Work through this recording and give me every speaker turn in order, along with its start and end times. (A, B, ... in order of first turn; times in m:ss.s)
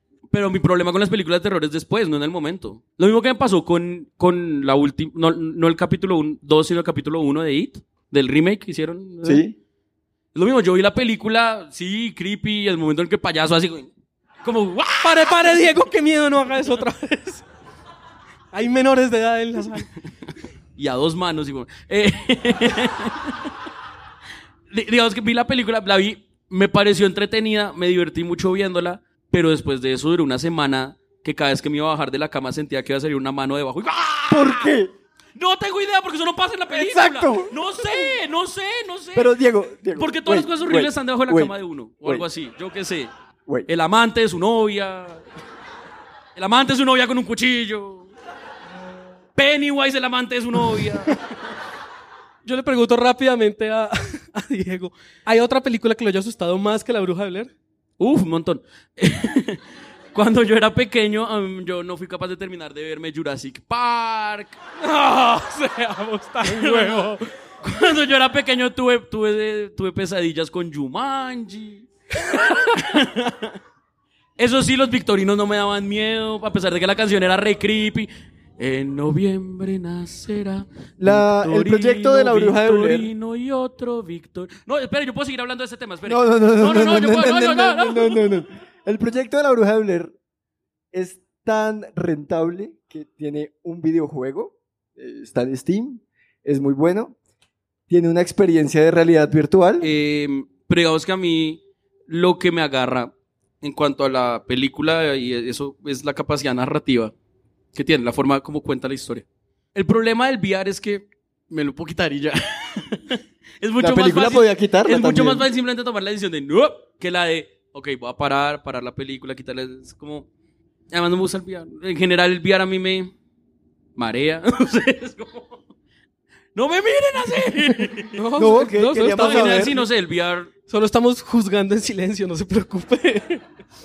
0:00.3-0:09.4 A
0:09.2-0:09.6 B
0:10.3-0:13.9 A
0:14.4-0:15.6 A
0:15.0-0:17.4 C
0:18.5-0:19.9 C
0:20.8-0:23.4 A
0:24.7-0:34.7 A
0:34.3-0:34.9 B
0:35.4-0:39.4 A
0:36.7-0:38.1 B
0:39.2-0:42.3 B
0:39.9-0:43.1 A
0:43.7-0:45.2 A
0:46.4-0:48.1 A
0:49.4-0:51.2 A
0:52.4-0:57.5 C
0:58.0-0:59.6 A
1:00.1-1:04.6 A
1:04.8-1:07.2 C
1:06.4-1:13.6 A
1:14.4-1:28.2 A
1:21.0-1:23.1 B
1:26.1-1:30.1 B
1:30.9-1:37.2 B
1:37.9-1:39.9 B
1:39.8-1:47.1 A
1:47.8-2:00.3 A
1:53.8-1:55.5 B
2:00.9-2:03.1 A
2:04.0-2:05.6 A
2:06.6-2:08.2 A
2:08.2-2:09.8 C
2:08.4-2:09.8 B
2:09.1-2:10.5 A
2:10.7-2:13.4 C